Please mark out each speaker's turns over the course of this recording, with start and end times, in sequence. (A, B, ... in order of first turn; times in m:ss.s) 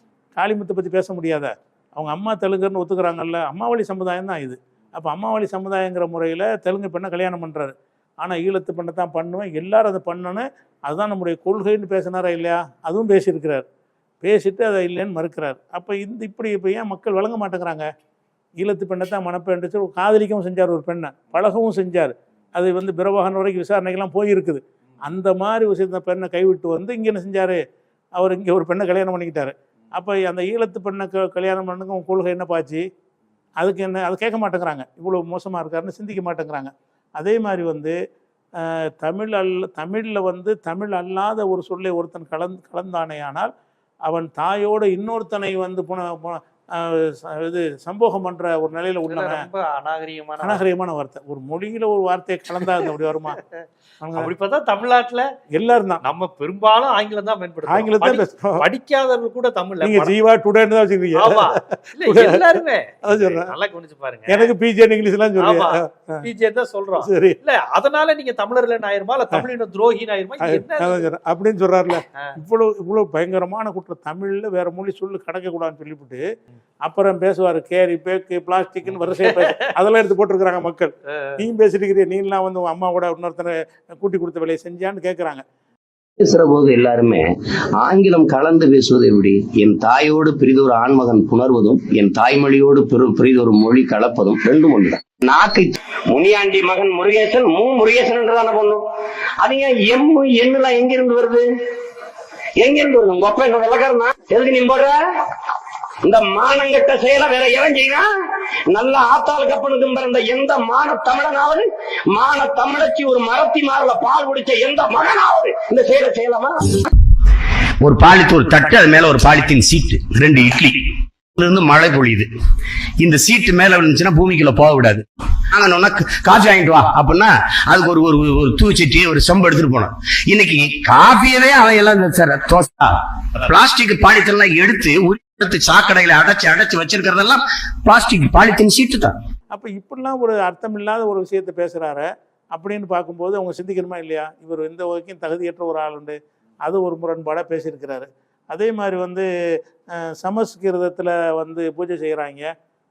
0:00.4-0:13.7 A
0:14.2-0:17.9 A
0:18.6-0:27.6 A
0:28.2-0:32.8 A
0:33.6-0:38.0 A
0:38.6-0:43.5 A
0:44.1-0:49.5 A
0:49.1-0:50.6 B
0:50.4-0:53.4 A
0:54.0-0:54.3 A
0:54.2-0:55.3 B
0:55.6-0:56.0 A
0:56.0-1:00.1 B
0:57.7-0:58.6 A
0:59.8-1:03.5 A
1:01.2-1:04.5 B
1:04.3-1:06.2 A
1:05.4-1:11.0 B
1:07.0-1:07.4 A
1:10.4-1:16.2 A
1:16.8-1:25.4 A
1:19.2-1:19.6 B
1:21.1-1:21.4 B
1:26.2-1:38.9 C
1:39.4-1:41.4 C
1:42.6-1:45.0 C
1:46.0-1:48.1 C
1:48.7-1:56.9 C
1:57.8-2:02.3 C
2:03.0-2:19.1 C
2:19.5-2:29.3 A
2:30.0-2:32.5 A